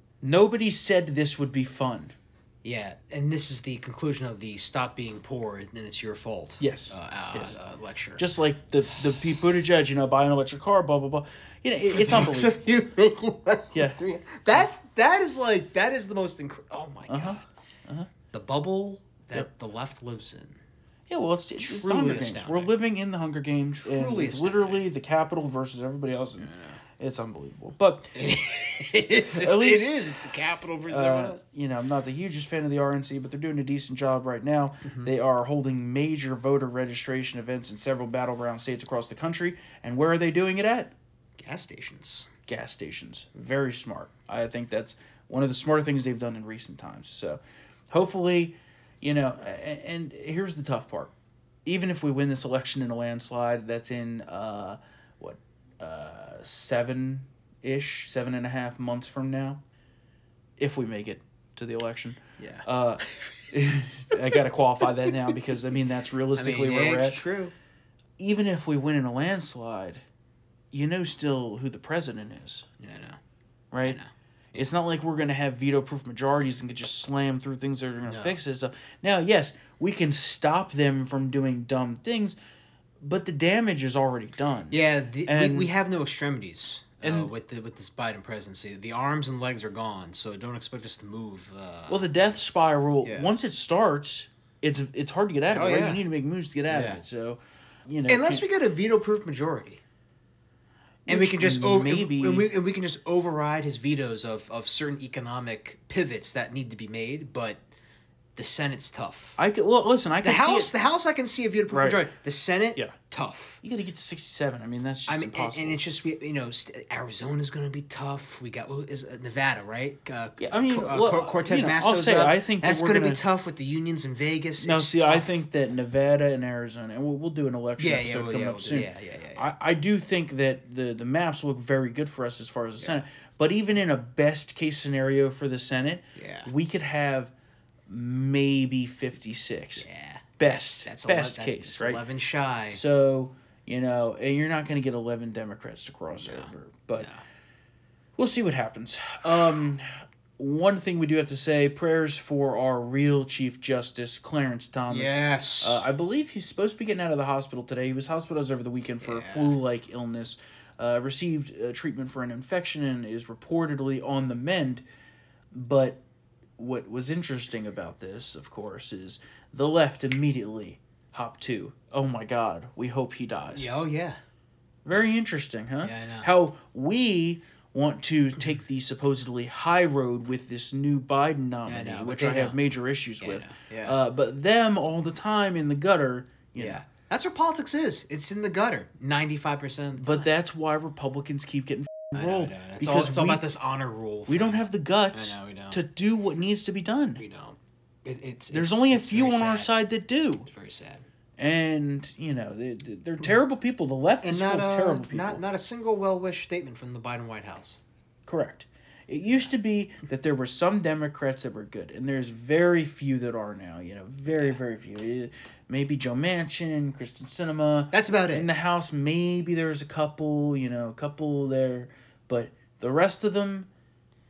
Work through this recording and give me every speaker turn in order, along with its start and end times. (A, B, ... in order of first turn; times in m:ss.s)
0:00.2-0:02.1 A
0:02.6-0:08.2 B
0:06.6-0:07.6 A
0:08.2-0:12.6 A
0:11.9-0:17.4 B
0:13.7-0:14.0 A
0:17.1-0:18.1 A
0:18.3-0:20.6 B
0:21.1-0:28.1 A
0:21.6-0:22.8 B
0:23.8-0:24.9 B
0:26.4-0:26.8 B
0:28.1-0:31.4 B
0:29.2-0:30.1 A
0:30.9-0:40.9 A
0:34.8-0:35.1 B
0:41.4-0:42.3 B
0:42.5-0:51.1 A
0:51.6-0:59.6 A
1:00.6-1:07.2 A
1:02.4-1:03.4 B
1:06.4-1:07.5 B
1:08.2-1:10.0 A
1:10.7-1:12.7 A
1:12.8-1:13.2 B
1:13.7-1:14.0 A
1:13.8-1:14.7 B
1:14.6-1:22.4 A
1:18.0-1:18.4 B
1:23.0-1:25.7 A
1:24.7-1:32.4 B
1:27.0-1:27.3 A
1:31.9-1:38.4 A
1:33.0-1:33.3 B
1:35.5-1:36.0 B
1:36.7-1:37.0 B
1:38.1-1:39.8 B
1:41.1-1:42.5 A
1:41.1-1:47.6 B
1:48.4-1:49.4 B
1:49.4-1:50.7 A
1:50.2-1:53.6 B
1:51.7-1:52.1 A
1:53.6-1:55.8 A
1:55.1-2:05.4 B
2:00.4-2:03.2 A
2:04.6-2:17.3 A
2:07.8-2:09.5 B
2:12.8-2:13.0 B
2:16.1-2:16.5 B
2:17.9-2:19.9 A
2:19.8-2:22.8 B
2:20.4-2:22.0 A
2:22.7-2:27.1 A
2:26.2-2:27.2 B
2:28.2-2:44.8 A
2:34.9-2:35.9 B
2:39.0-2:39.6 B
2:45.5-2:46.0 A
2:46.6-2:53.7 A
2:53.5-2:54.2 B
2:54.8-3:06.8 A
2:55.8-2:56.3 B
3:01.7-3:02.6 B
3:03.2-3:04.0 B
3:06.6-3:10.3 B
3:10.0-3:13.5 A
3:12.1-3:15.8 B
3:14.3-3:17.2 A
3:17.2-3:19.7 B
3:18.5-3:20.5 A
3:20.4-3:21.1 B
3:21.4-3:25.4 A
3:24.2-3:27.8 B
3:28.3-3:43.7 A
3:34.3-3:34.6 B
3:37.9-3:38.5 B